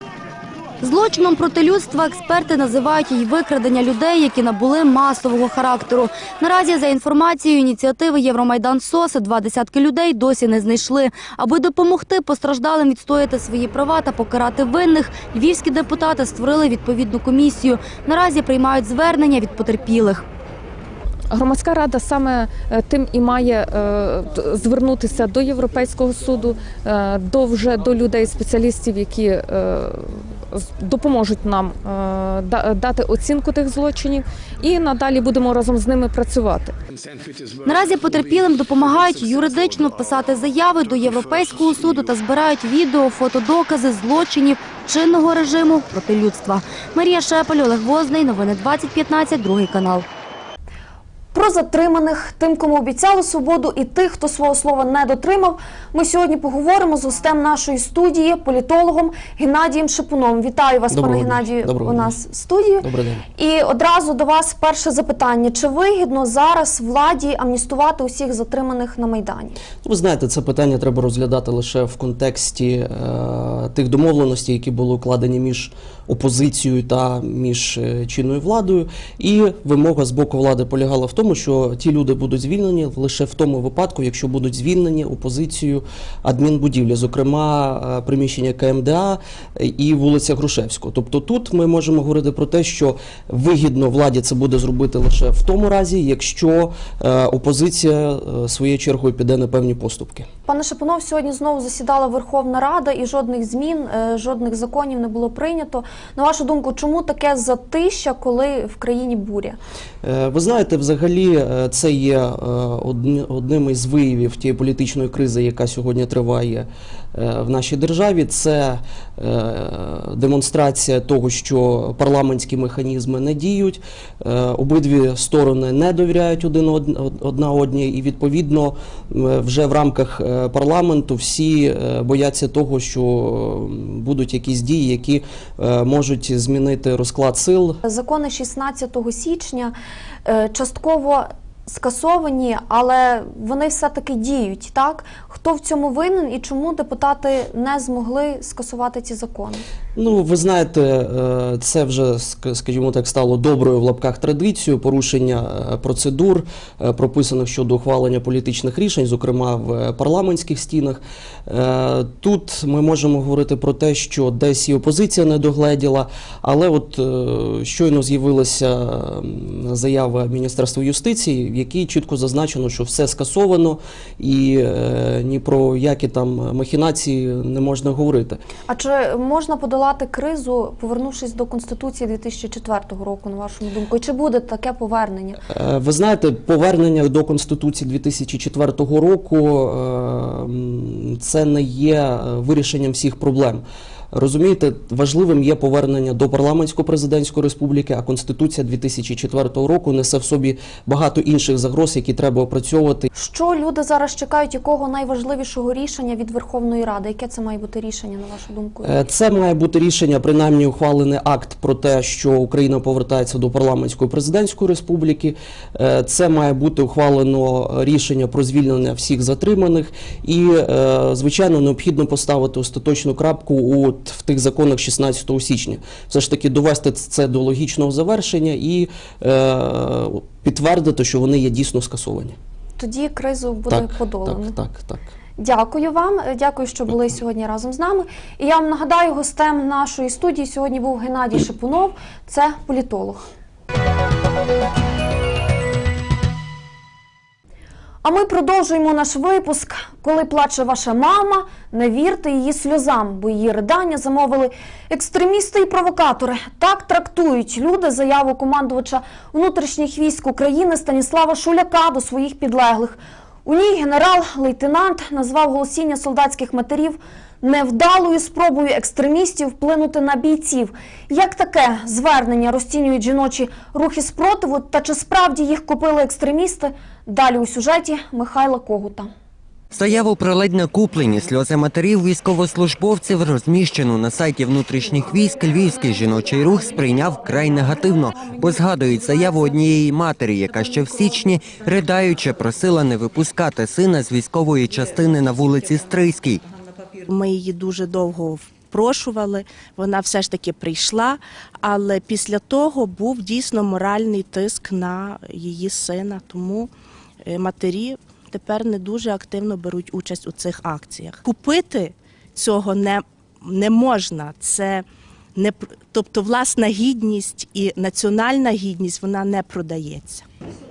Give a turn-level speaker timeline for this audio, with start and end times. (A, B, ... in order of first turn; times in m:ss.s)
0:00.8-0:20.3 A
0:21.3-0:36.8 B
0:37.7-0:50.0 A
0:51.3-1:02.8 C
1:00.9-1:02.1 D
1:02.8-1:03.2 D
1:03.4-1:09.6 C
1:09.8-1:40.3 D
1:40.5-1:49.6 C
1:50.0-2:17.8 D
2:17.8-2:19.8 C
2:20.3-2:29.6 C
2:30.0-2:58.4 D
2:58.7-3:05.4 C
3:05.5-3:23.1 D
3:23.1-3:28.9 C
3:28.8-3:52.4 D
3:52.8-3:54.6 C
3:53.7-3:55.0 D
3:55.4-4:03.2 C
4:08.0-4:39.1 C
4:39.8-4:56.4 E
4:57.1-5:06.7 F
5:07.3-5:14.8 F
5:15.4-5:20.3 F